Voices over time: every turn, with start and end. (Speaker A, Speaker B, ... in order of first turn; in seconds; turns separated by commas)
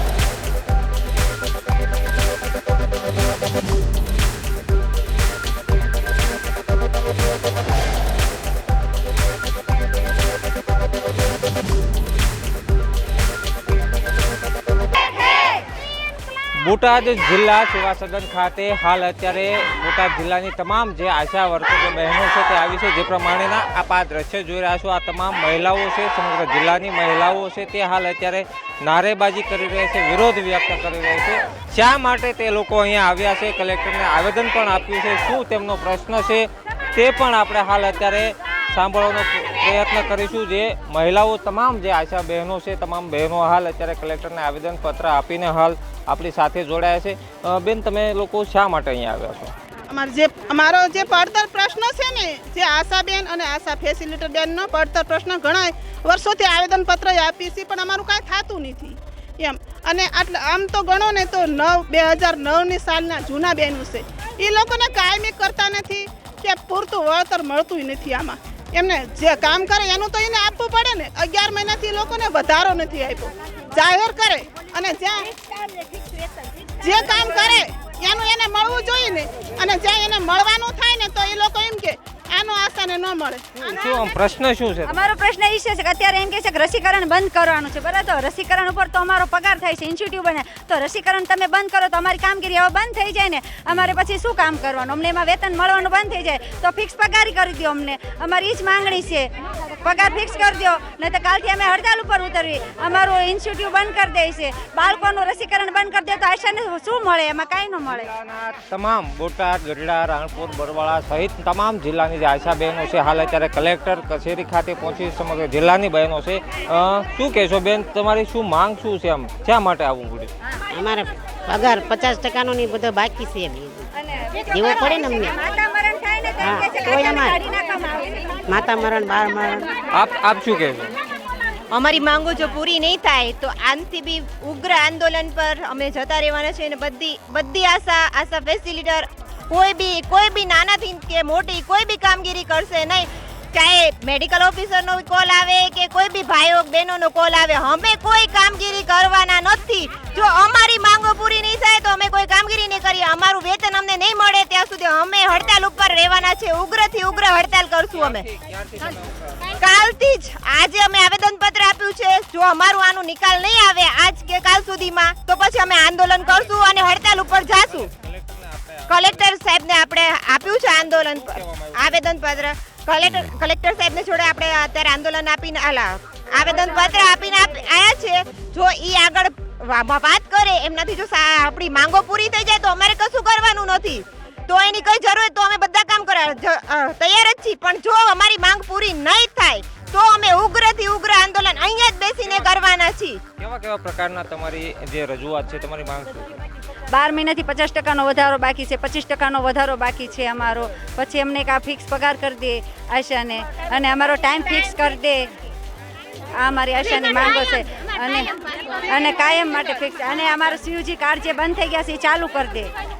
Speaker A: 16.6-49.5, Speaker B: 49.9-75.3, Speaker B: 76.8-83.5, Speaker A: 83.6-85.0, Speaker C: 84.9-108.1, Speaker A: 107.9-120.3, Speaker D: 120.7-123.9, Speaker C: 124.3-128.4, Speaker D: 124.5-125.3, Speaker D: 126.4-127.4, Speaker D: 128.5-129.7, Speaker A: 129.9-131.0, Speaker E: 131.7-158.2, Speaker A: 157.9-159.9, Speaker E: 159.6-167.9, Speaker A: 166.2-169.5, Speaker E: 168.9-193.2, Speaker A: 170.5-172.2, Speaker A: 193.4-196.4, Speaker C: 196.9-205.3, Speaker C: 206.3-212.7